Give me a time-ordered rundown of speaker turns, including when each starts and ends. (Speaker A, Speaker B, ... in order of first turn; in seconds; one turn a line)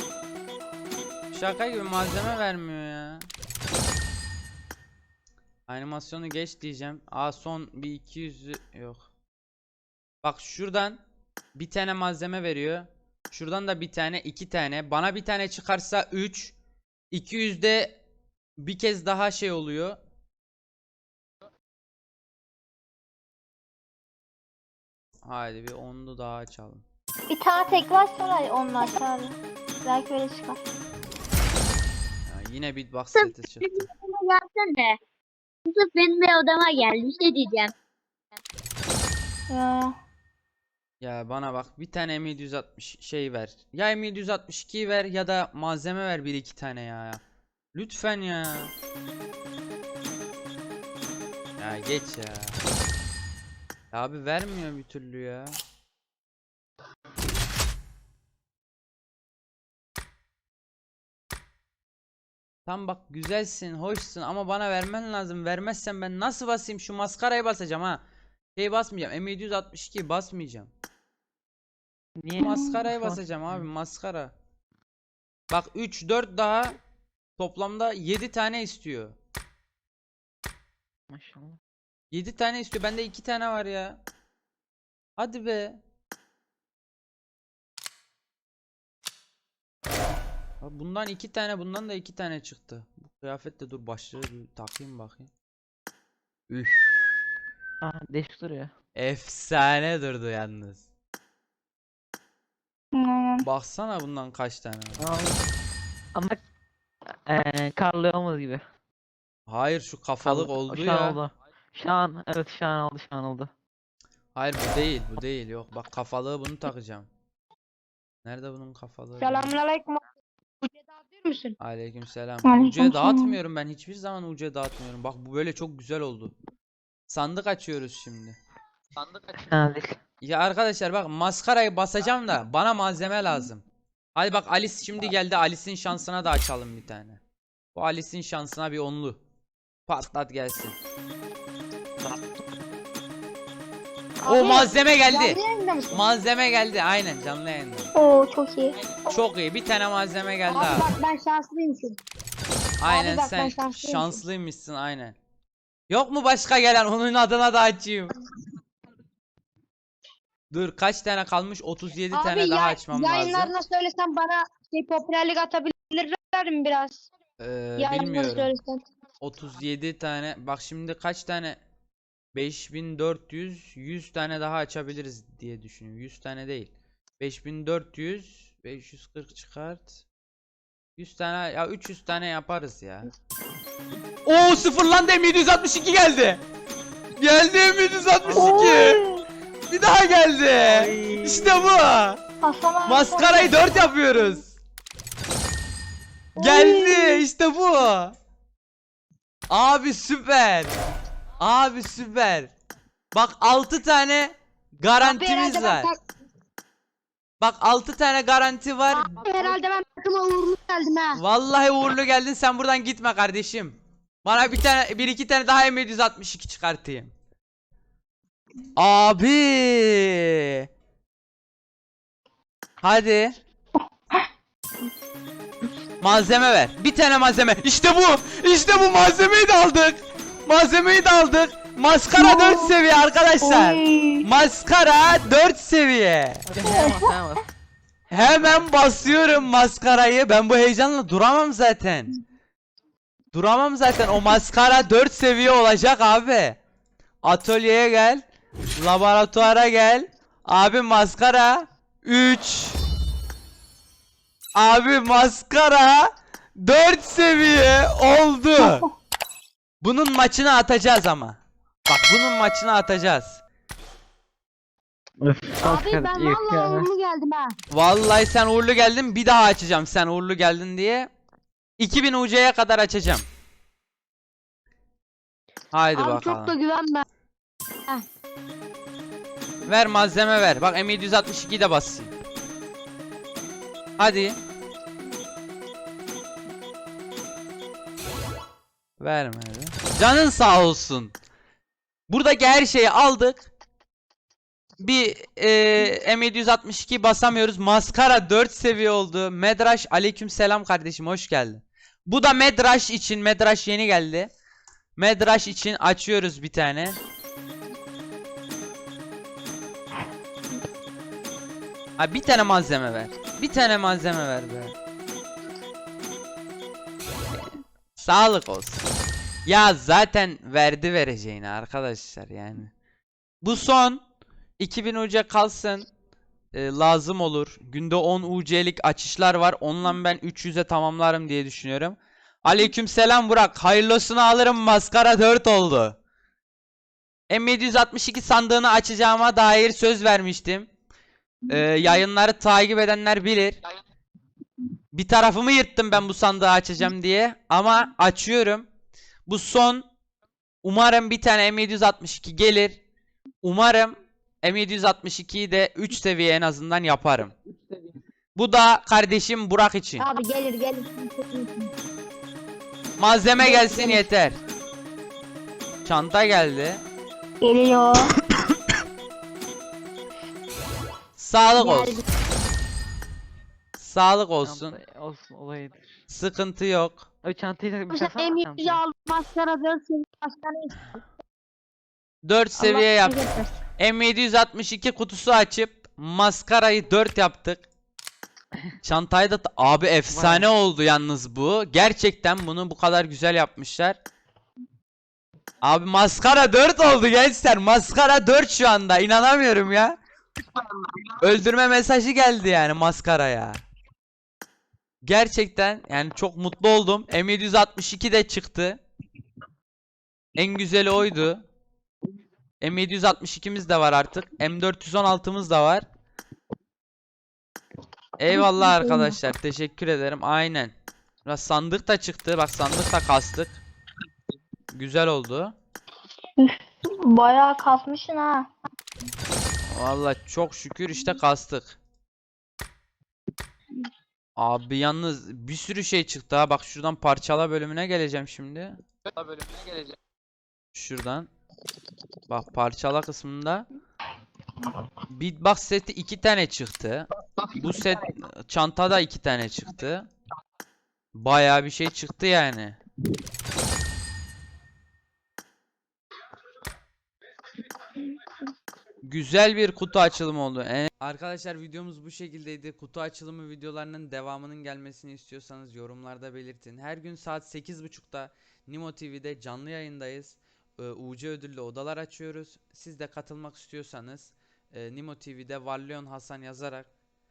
Speaker A: 1.3-3.3
Speaker A: 5.7-9.1
Speaker A: 10.2-11.0
Speaker A: 11.5-16.5
Speaker A: 17.1-18.0
Speaker A: 18.6-20.0
Speaker A: 25.2-26.8
Speaker B: 27.3-30.6
Speaker A: 32.2-33.9
Speaker C: 33.1-35.0
Speaker C: 35.6-37.7
Speaker B: 39.5-40.0
Speaker A: 41.0-47.2
Speaker A: 47.7-48.7
Speaker A: 51.6-52.6
Speaker A: 53.9-55.6
Speaker A: 62.6-68.0
Speaker A: 68.5-70.7
Speaker D: 72.2-73.7
Speaker A: 72.4-74.3
Speaker A: 75.5-76.8
Speaker A: 77.4-79.2
Speaker D: 81.1-81.6
Speaker A: 82.1-84.0
Speaker A: 85.2-85.8
Speaker A: 90.6-95.3
Speaker A: 96.5-97.1
Speaker D: 97.8-98.7
Speaker A: 99.0-100.8
Speaker B: 102.9-103.5
Speaker A: 103.4-105.1
Speaker D: 105.0-105.5
Speaker D: 106.1-106.4
Speaker D: 107.3-108.6
Speaker A: 109.5-111.2
Speaker D: 110.2-113.5
Speaker A: 114.3-117.1
Speaker A: 118.2-119.5
Speaker E: 119.2-120.0
Speaker E: 120.6-121.5
Speaker A: 121.6-126.3
Speaker B: 122.4-123.4
Speaker A: 127.1-128.4
Speaker D: 129.1-130.0
Speaker A: 130.2-133.6
Speaker A: 134.2-137.2
Speaker A: 137.7-139.2
Speaker A: 139.9-140.8
Speaker E: 144.2-146.0
Speaker A: 144.2-145.4
Speaker A: 145.9-147.9
Speaker B: 147.9-148.7
Speaker A: 149.1-150.9
Speaker E: 150.5-152.0
Speaker A: 152.8-155.2
Speaker E: 152.8-154.2
Speaker A: 155.9-158.1
Speaker A: 160.5-163.5
Speaker E: 162.1-167.1
Speaker A: 167.4-168.5
Speaker E: 167.8-168.8
Speaker A: 169.2-171.6
Speaker A: 172.3-180.0
Speaker A: 181.0-183.1
Speaker A: 184.2-186.4
Speaker A: 187.2-189.0
Speaker D: 188.3-188.6
Speaker B: 188.3-189.2
Speaker A: 189.7-192.2
Speaker D: 190.7-191.6
Speaker B: 192.4-194.4
Speaker A: 192.8-194.6
Speaker A: 196.4-198.2
Speaker B: 196.4-197.2
Speaker A: 199.5-200.7
Speaker A: 201.4-202.5
Speaker A: 203.1-205.9
Speaker E: 205.0-206.0
Speaker A: 207.4-209.1
Speaker E: 208.9-211.2
Speaker A: 211.2-217.1
Speaker A: 218.8-220.7
Speaker A: 222.8-223.3
Speaker A: 226.0-236.4
Speaker B: 232.2-232.7
Speaker B: 233.4-234.3
Speaker D: 236.4-237.4
Speaker B: 236.7-237.1
Speaker A: 238.1-242.1
Speaker D: 238.1-239.3
Speaker A: 243.3-246.6
Speaker A: 247.2-248.2
Speaker A: 248.8-252.8
Speaker A: 254.6-258.9
Speaker B: 258.6-258.8
Speaker A: 259.8-263.4
Speaker D: 265.2-266.9
Speaker E: 265.6-267.5
Speaker A: 267.7-271.1
Speaker A: 271.8-273.3
Speaker A: 275.7-276.6
Speaker E: 275.9-277.0
Speaker A: 279.6-282.1
Speaker A: 284.0-284.4
Speaker A: 289.0-291.1
Speaker A: 292.1-293.5
Speaker A: 294.8-304.3
Speaker A: 305.0-307.0
Speaker A: 312.0-314.8
Speaker A: 317.3-318.9
Speaker A: 319.4-322.7
Speaker A: 323.4-324.0
Speaker A: 324.6-325.9
Speaker A: 326.5-336.0
Speaker A: 337.3-340.7
Speaker A: 341.5-343.6
Speaker A: 344.9-348.7
Speaker A: 349.3-349.9
Speaker A: 350.6-352.8
Speaker A: 353.4-357.4
Speaker A: 358.3-360.1
Speaker E: 360.0-361.7
Speaker A: 363.0-364.4
Speaker E: 363.4-364.0
Speaker A: 365.8-366.8
Speaker B: 367.4-368.1
Speaker A: 371.1-372.0
Speaker E: 371.6-372.0
Speaker A: 373.8-374.8
Speaker D: 374.4-375.8
Speaker A: 376.1-377.1
Speaker D: 377.2-378.8
Speaker E: 377.9-381.0
Speaker A: 382.2-383.2
Speaker E: 382.6-383.6
Speaker A: 383.8-387.6
Speaker A: 388.8-394.0
Speaker D: 390.1-390.5
Speaker A: 395.6-400.0
Speaker A: 401.2-403.6
Speaker A: 405.0-408.8
Speaker A: 410.4-411.4
Speaker A: 412.6-415.8
Speaker A: 418.2-420.7
Speaker A: 421.2-423.6
Speaker A: 424.7-425.5
Speaker B: 426.4-428.5
Speaker A: 429.7-431.8
Speaker A: 434.4-438.8
Speaker A: 440.7-441.3
Speaker A: 442.3-443.7
Speaker A: 445.1-450.1
Speaker A: 451.1-452.8
Speaker A: 459.0-476.9